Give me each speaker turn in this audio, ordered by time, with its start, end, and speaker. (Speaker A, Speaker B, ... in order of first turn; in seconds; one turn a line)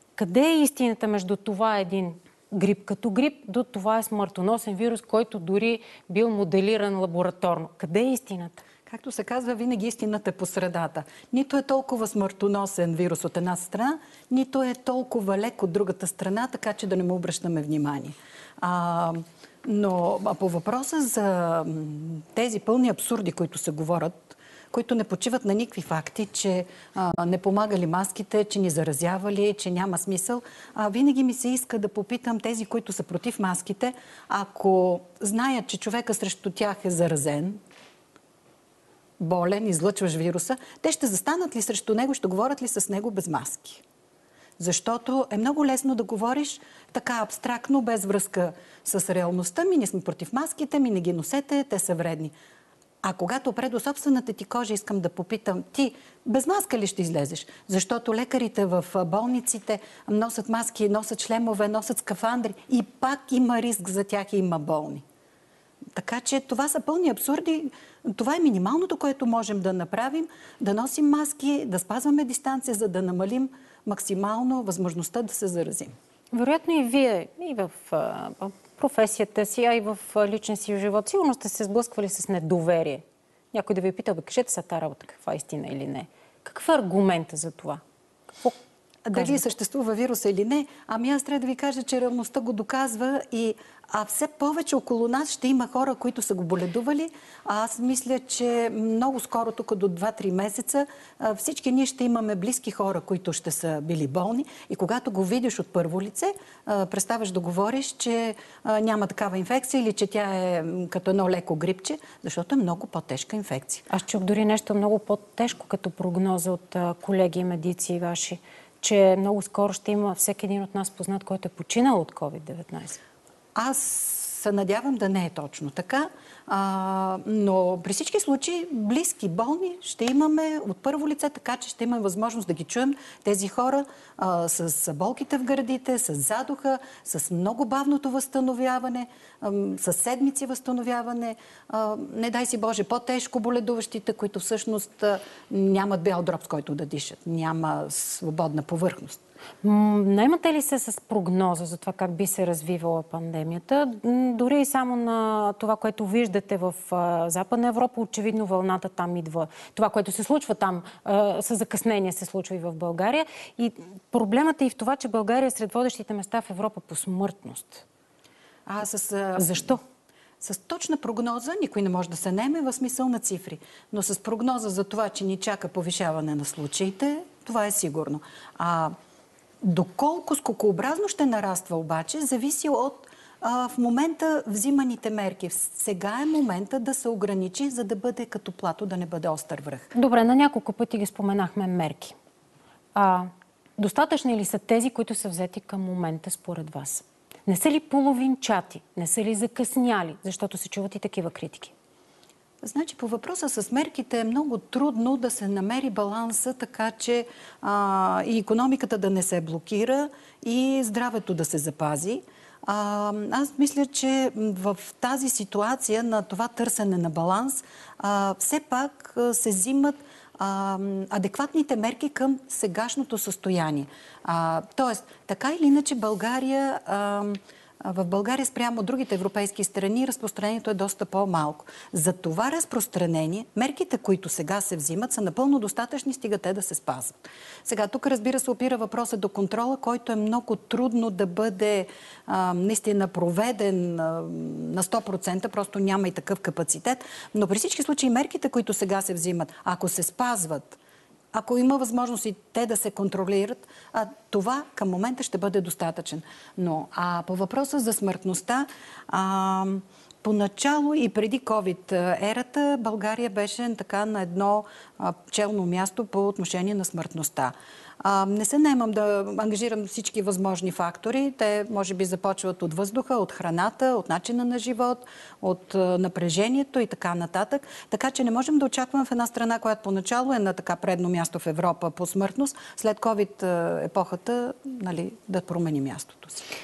Speaker A: 0.2-8.6
Speaker B: 8.9-37.6
Speaker B: 39.2-43.8
Speaker B: 44.6-52.3
Speaker B: 53.0-65.0
Speaker B: 66.0-75.9
Speaker A: 76.3-87.8
Speaker B: 89.1-113.9
Speaker A: 89.1-89.5
Speaker A: 113.9-123.0
Speaker B: 123.6-149.2
Speaker A: 149.6-167.8
Speaker B: 168.7-169.8
Speaker A: 169.4-169.8
Speaker B: 170.4-178.9
Speaker B: 179.6-189.9
Speaker A: 189.9-192.2
Speaker A: 192.9-201.7
Speaker B: 202.6-250.8
Speaker B: 251.3-286.4